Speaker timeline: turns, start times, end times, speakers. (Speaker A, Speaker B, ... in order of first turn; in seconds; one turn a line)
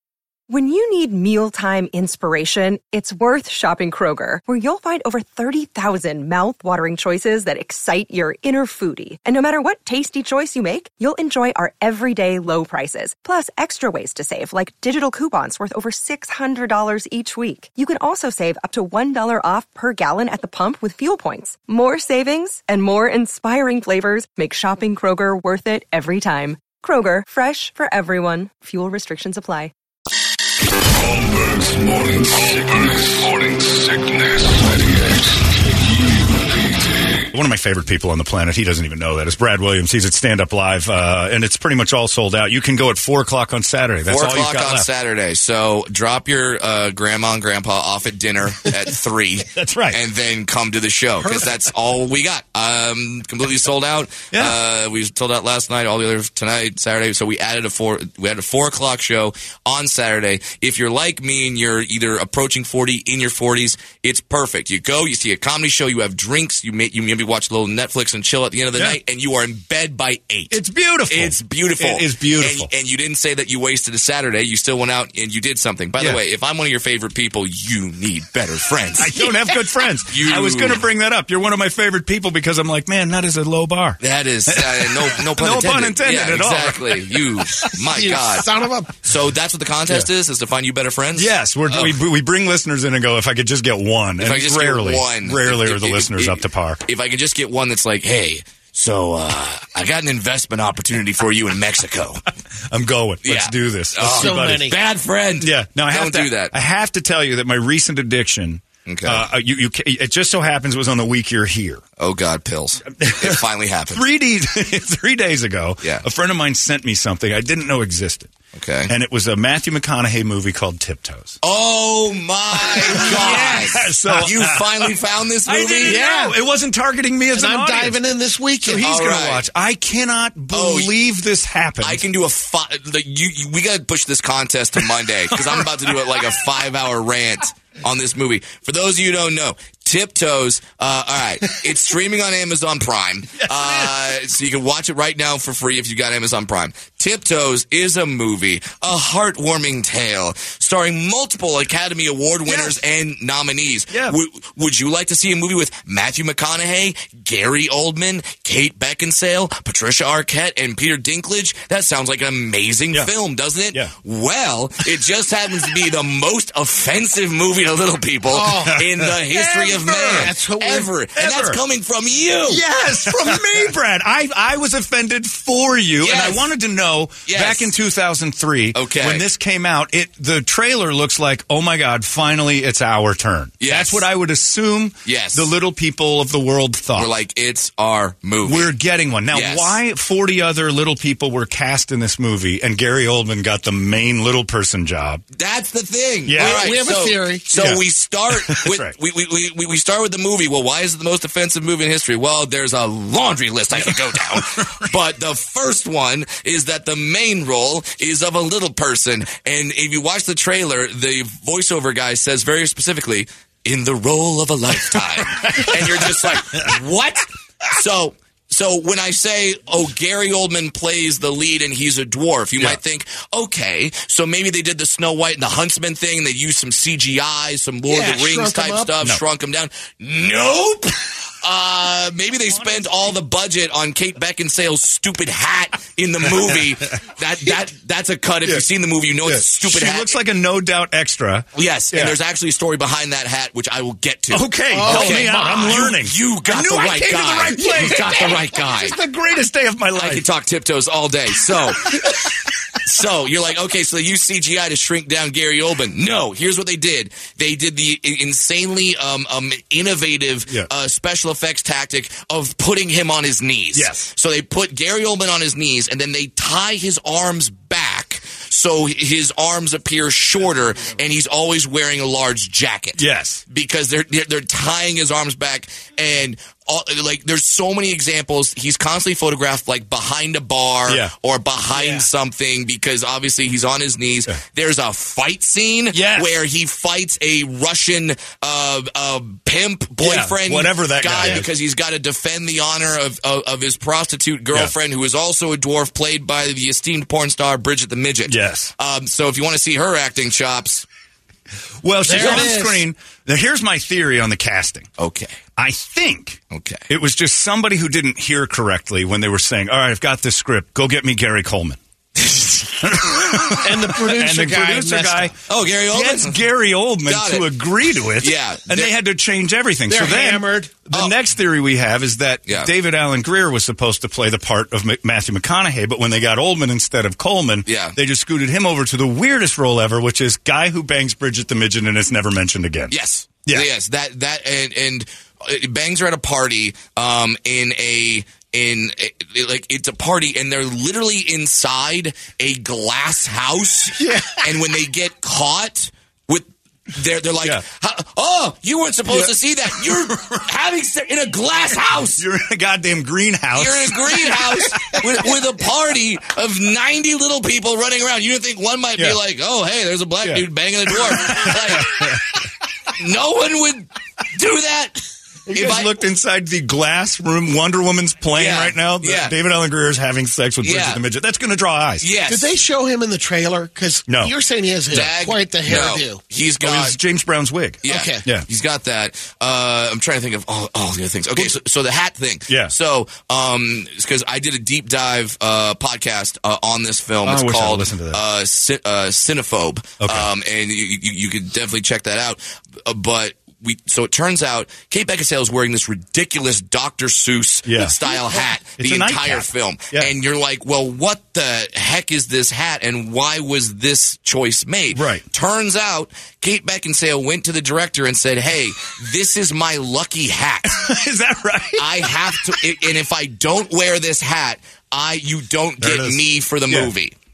Speaker A: 0.5-29.7
Speaker B: 31.0-35.2
Speaker B: 36.4-36.7
Speaker C: 37.3-44.9
Speaker D: 44.1-79.3
Speaker C: 49.5-50.0
Speaker C: 70.5-72.7
Speaker C: 79.0-87.0
Speaker D: 80.0-80.9
Speaker D: 84.0-92.0
Speaker E: 87.9-89.0
Speaker C: 91.1-96.8
Speaker D: 94.2-102.2
Speaker C: 102.7-104.7
Speaker D: 103.2-106.5
Speaker E: 104.0-104.8
Speaker C: 105.4-111.8
Speaker D: 108.8-109.2
Speaker D: 112.0-114.0
Speaker C: 112.9-118.3
Speaker D: 118.5-118.9
Speaker C: 118.9-121.4
Speaker D: 121.4-126.0
Speaker C: 122.6-124.9
Speaker C: 125.5-128.0
Speaker E: 125.8-126.4
Speaker E: 127.3-128.9
Speaker C: 128.6-132.0
Speaker D: 128.8-129.4
Speaker D: 130.5-130.9
Speaker D: 131.8-172.6
Speaker C: 135.3-135.6
Speaker C: 143.4-143.9
Speaker C: 152.5-152.8
Speaker C: 153.9-154.2
Speaker E: 168.3-170.9
Speaker C: 168.6-169.4
Speaker C: 171.2-171.6
Speaker C: 172.5-187.1
Speaker D: 176.0-176.5
Speaker D: 177.2-177.7
Speaker D: 178.7-179.3
Speaker D: 183.6-184.1
Speaker D: 185.0-185.5
Speaker D: 186.9-188.7
Speaker C: 188.4-195.2
Speaker D: 189.3-189.8
Speaker D: 195.3-240.2
Speaker C: 196.2-196.7
Speaker E: 196.3-197.5
Speaker C: 197.5-197.8
Speaker C: 198.3-198.9
Speaker C: 203.7-204.7
Speaker C: 215.5-215.9
Speaker E: 227.9-228.9
Speaker C: 232.5-233.1
Speaker C: 239.2-242.2
Speaker D: 241.5-249.0
Speaker C: 244.3-250.2
Speaker E: 244.7-245.9
Speaker E: 247.4-247.9
Speaker D: 249.9-252.1
Speaker D: 252.8-300.9
Speaker C: 263.7-264.1
Speaker C: 273.0-273.4
Speaker C: 280.9-281.1
Speaker C: 285.9-286.3
Speaker C: 290.0-291.5
Speaker C: 298.2-298.7
Speaker C: 301.8-304.9
Speaker E: 302.1-302.8
Speaker D: 302.1-302.5
Speaker D: 305.0-305.3
Speaker C: 305.6-311.8
Speaker D: 306.5-306.9
Speaker D: 312.2-313.1
Speaker C: 312.8-315.3
Speaker E: 313.6-315.3
Speaker D: 315.4-316.5
Speaker C: 315.9-332.9
Speaker D: 317.0-317.6
Speaker D: 318.1-318.9
Speaker E: 319.9-320.9
Speaker D: 327.6-328.0
Speaker D: 332.9-352.2
Speaker C: 349.1-350.1
Speaker C: 352.1-355.1
Speaker D: 353.5-362.2
Speaker C: 360.2-362.1
Speaker D: 363.0-365.9
Speaker C: 365.5-372.1
Speaker D: 368.3-369.3
Speaker D: 370.6-371.0
Speaker D: 372.0-372.5
Speaker E: 372.3-376.2
Speaker C: 374.1-374.3
Speaker D: 374.9-377.0
Speaker C: 376.6-378.4
Speaker D: 377.8-410.8
Speaker E: 377.8-378.2
Speaker C: 382.5-382.7
Speaker C: 387.2-388.2
Speaker C: 390.0-390.3
Speaker C: 397.6-400.1
Speaker C: 404.9-405.2
Speaker C: 410.6-412.5
Speaker D: 411.8-417.1
Speaker C: 415.8-416.9